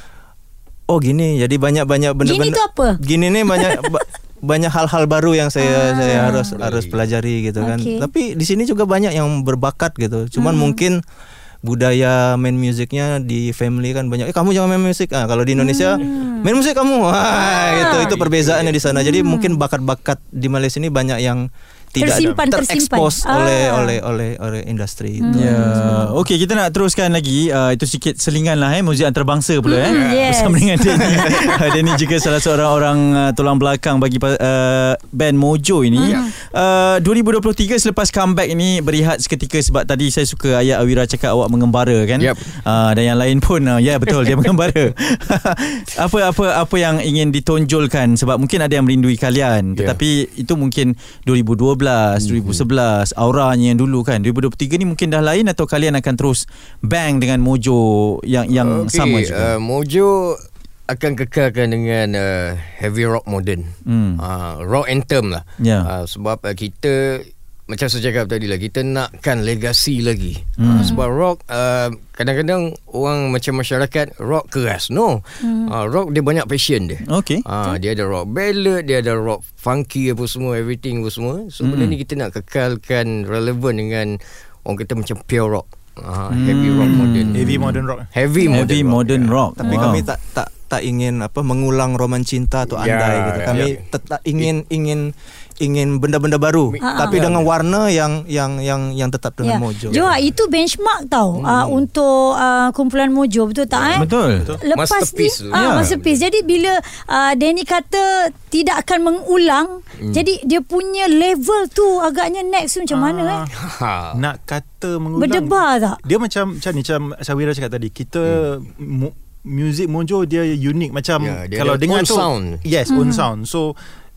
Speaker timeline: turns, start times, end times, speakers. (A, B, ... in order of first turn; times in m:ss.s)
0:00.9-0:11.0 A
0:02.2-0:03.0 B
0:03.5-0:03.9 B
0:05.6-0:06.5 B
0:06.4-0:07.0 C
0:07.6-0:08.1 B
0:10.4-0:10.8 B
0:11.6-0:26.0 A
0:15.6-0:16.5 B
0:17.4-0:18.8 C
0:17.7-0:18.2 B
0:18.9-0:19.6 B
0:22.0-0:24.0 B
0:22.0-0:22.4 D
0:25.2-0:26.1 B
0:25.3-0:59.6 E
0:29.7-0:31.6 B
0:29.9-0:30.5 C
0:36.0-0:36.3 B
0:42.2-0:42.6 C
0:52.2-0:52.6 C
0:58.5-1:29.4 C
1:03.9-1:04.2 E
1:05.6-1:05.9 E
1:10.6-1:11.0 E
1:10.8-1:11.0 B
1:15.4-1:15.7 B
1:17.1-1:17.4 E
1:21.6-1:22.0 E
1:26.3-1:27.8 E
1:27.3-1:28.1 D
1:28.4-1:28.6 B
1:28.5-1:30.1 E
1:29.6-1:40.1 A
1:29.6-1:30.0 B
1:32.7-1:33.8 C
1:36.7-1:37.5 C
1:36.8-1:37.2 B
1:39.4-1:53.5 B
1:41.4-1:41.9 C
1:43.8-1:44.0 C
1:44.0-1:44.5 E
1:44.4-1:44.6 D
1:44.7-1:46.2 C
1:45.5-1:45.9 E
1:50.0-1:50.2 C
1:52.9-1:53.5 D
1:53.5-1:54.2 C
1:54.1-2:03.8 D
1:55.2-1:56.0 B
2:01.2-2:02.6 C
2:02.9-2:03.3 B